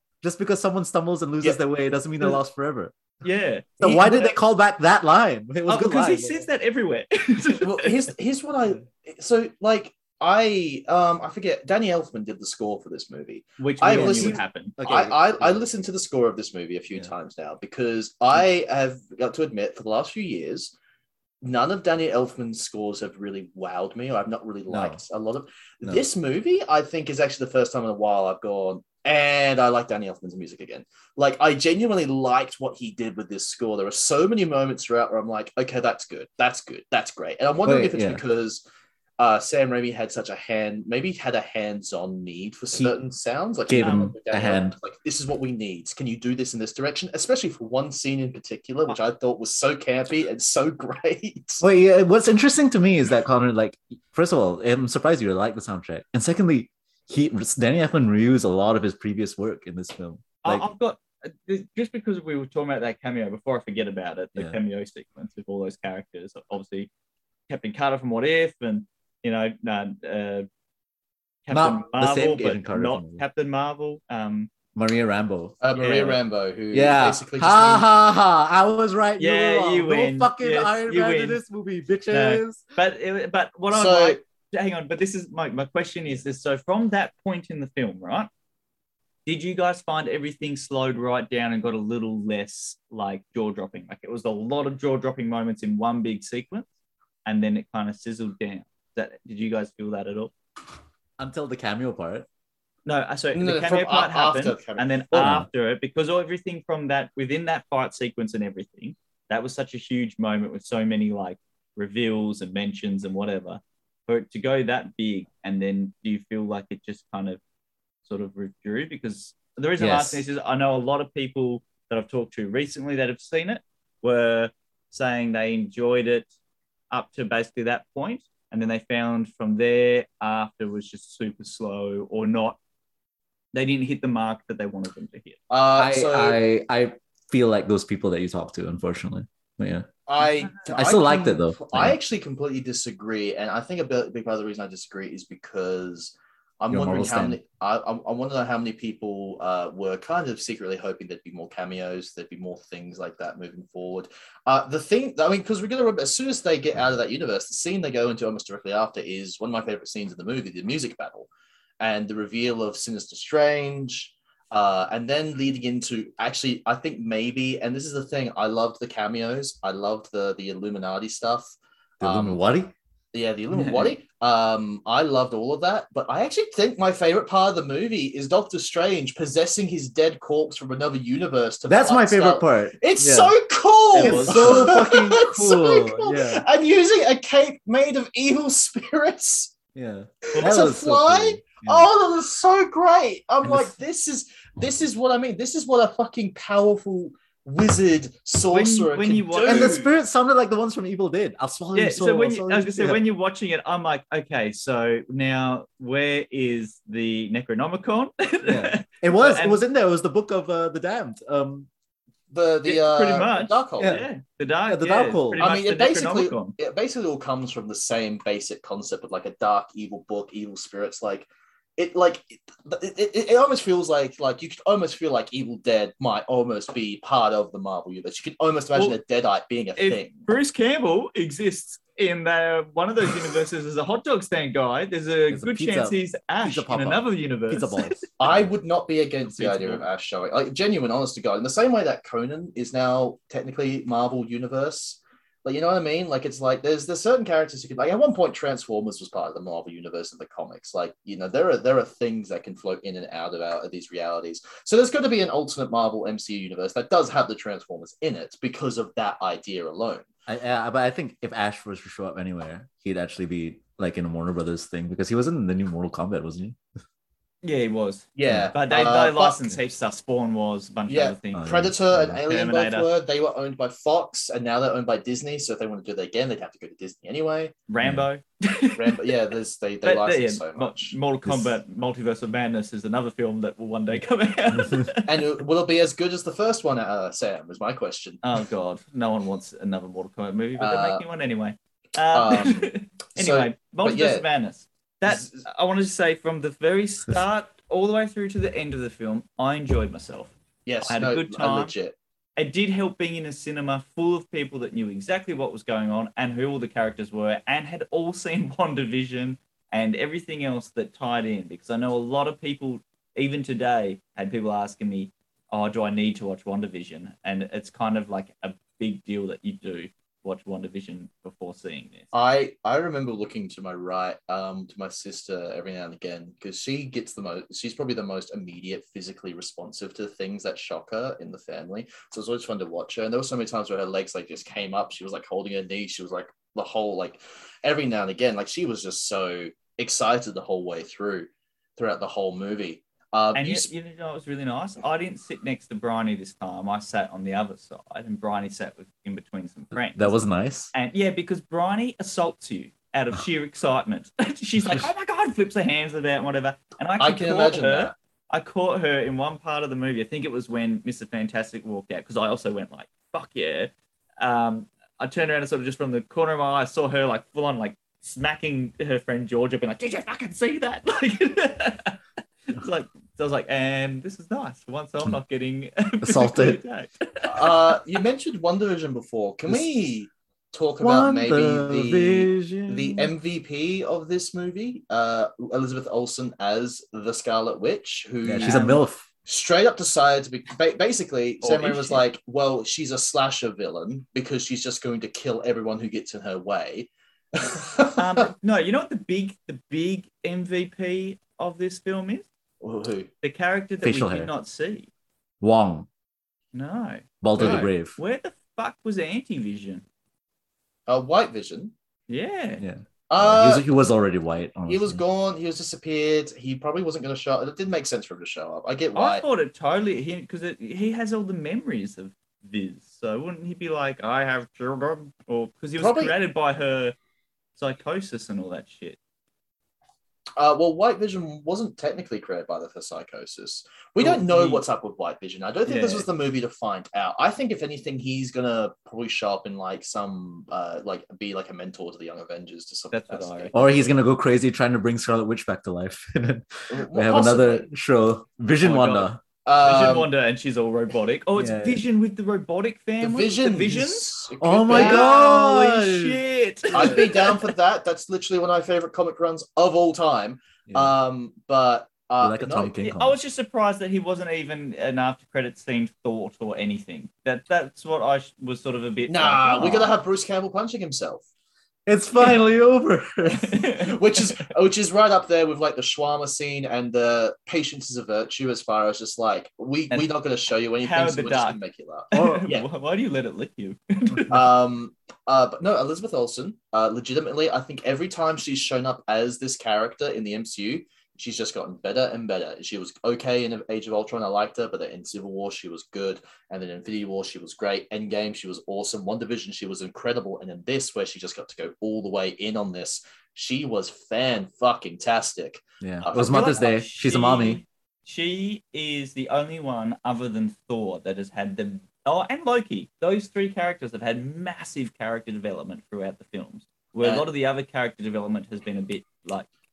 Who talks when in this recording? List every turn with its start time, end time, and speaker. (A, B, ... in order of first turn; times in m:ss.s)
0:00.2-0:02.9 A
0:03.2-0:04.3 B
0:03.8-0:06.4 A
0:05.7-0:08.0 B
0:07.6-0:20.7 C
0:13.6-0:14.8 B
0:13.9-0:15.6 A
0:21.4-0:38.6 C
0:24.7-0:25.0 A
0:37.6-0:38.2 A
0:39.2-0:51.6 C
0:43.7-0:44.8 A
0:43.8-0:44.1 B
0:51.6-1:00.7 A
1:00.4-1:06.9 B
1:07.5-1:10.5 B
1:11.5-1:14.5 B
1:11.5-1:13.2 A
1:14.8-1:15.6 A
1:15.6-1:17.9 C
1:15.8-1:16.2 B
1:16.7-1:22.6 A
1:19.2-1:21.4 B
1:22.1-1:28.3 B
1:23.7-1:24.2 C
1:29.3-1:36.7 B
1:37.3-1:40.3 B
1:41.2-1:42.3 A
1:42.9-1:57.4 B
1:43.3-1:45.4 C
1:45.2-1:45.5 A
1:58.0-2:06.3 B
1:59.8-2:00.2 A
2:06.9-2:12.6 B
2:13.5-2:15.4 B
2:15.5-2:16.4 C
2:15.8-2:19.9 A
2:20.1-2:41.3 C
2:20.2-2:20.6 B
2:20.6-2:22.0 A
2:26.7-2:27.4 A
2:41.8-2:52.4 C
2:52.0-2:52.7 A
2:53.1-3:09.6 C
2:53.5-2:54.0 B
3:01.7-3:03.4 A
3:03.9-3:04.8 B
3:04.0-3:06.5 A
3:09.8-3:11.9 A
3:10.3-3:10.6 B
3:10.4-3:19.8 C
3:18.5-3:19.9 B
3:19.5-3:23.0 A
3:21.7-3:29.6 B
3:28.5-3:31.7 A
3:32.3-3:33.9 C
3:32.6-3:36.6 B
3:33.8-3:34.1 A
3:34.7-3:35.4 A
3:35.4-3:50.3 C
3:49.8-3:58.4 B
3:55.3-3:58.0 A
3:58.2-4:20.1 C
3:59.3-3:59.8 B
4:20.3-4:26.6 A
4:27.4-4:31.5 B
4:28.2-4:29.5 C
4:28.3-4:28.5 A
4:30.9-4:37.5 C
4:31.4-4:32.2 A
4:32.3-4:32.9 B
4:37.7-4:39.1 B
4:38.8-4:41.0 C
4:39.8-4:45.2 B
4:41.3-4:41.5 A
4:45.1-4:48.2 C
4:48.2-5:00.3 B
4:50.6-4:51.0 C
4:52.1-4:54.3 C
4:55.1-4:55.5 C
5:00.7-5:02.0 C
5:00.8-5:01.7 B
5:02.4-5:22.1 B
5:22.1-5:43.7 C
5:43.3-5:50.2 B
5:49.9-5:50.7 A
5:50.7-6:12.0 B
5:57.0-5:57.9 C
6:12.5-6:17.8 B
6:16.0-6:16.6 A
6:17.2-6:38.3 C
6:20.8-6:23.1 A
6:28.2-6:29.0 A
6:28.4-6:28.8 B
6:31.4-6:32.0 B
6:38.0-6:42.3 B
6:42.6-6:43.1 C
6:43.2-6:44.9 B
6:43.8-6:44.3 A
6:45.4-6:45.9 A
6:46.5-6:49.8 B
6:47.2-6:48.0 A
6:47.4-6:47.7 C
6:50.9-6:51.7 C
6:52.1-6:52.6 B
6:52.6-6:55.0 A
6:53.1-6:53.7 C
6:54.7-6:59.2 C
6:59.0-7:07.0 B
7:05.8-7:06.1 C
7:07.6-7:09.0 B
7:10.4-7:23.7 C
7:14.0-7:14.6 B
7:15.7-7:16.1 B
7:22.9-7:23.7 B
7:23.5-7:29.2 A
7:26.7-7:27.7 C
7:28.6-7:29.1 B
7:29.4-7:30.1 C
7:29.6-7:34.1 B
7:31.4-7:31.8 A
7:33.0-7:35.2 C
7:34.4-7:36.2 A
7:34.7-7:37.5 B
7:36.7-7:42.8 C
7:36.7-7:37.1 A
7:40.7-7:41.0 A
7:42.2-7:43.2 A
7:42.8-7:50.0 B
7:49.1-7:51.2 C
7:51.9-7:53.5 A
7:53.3-7:54.2 B
7:53.7-8:02.7 C
8:00.8-8:01.6 B
8:02.1-8:04.5 B
8:02.2-8:02.5 A
8:04.3-8:26.6 C
8:25.8-8:27.6 A
8:26.1-8:39.5 B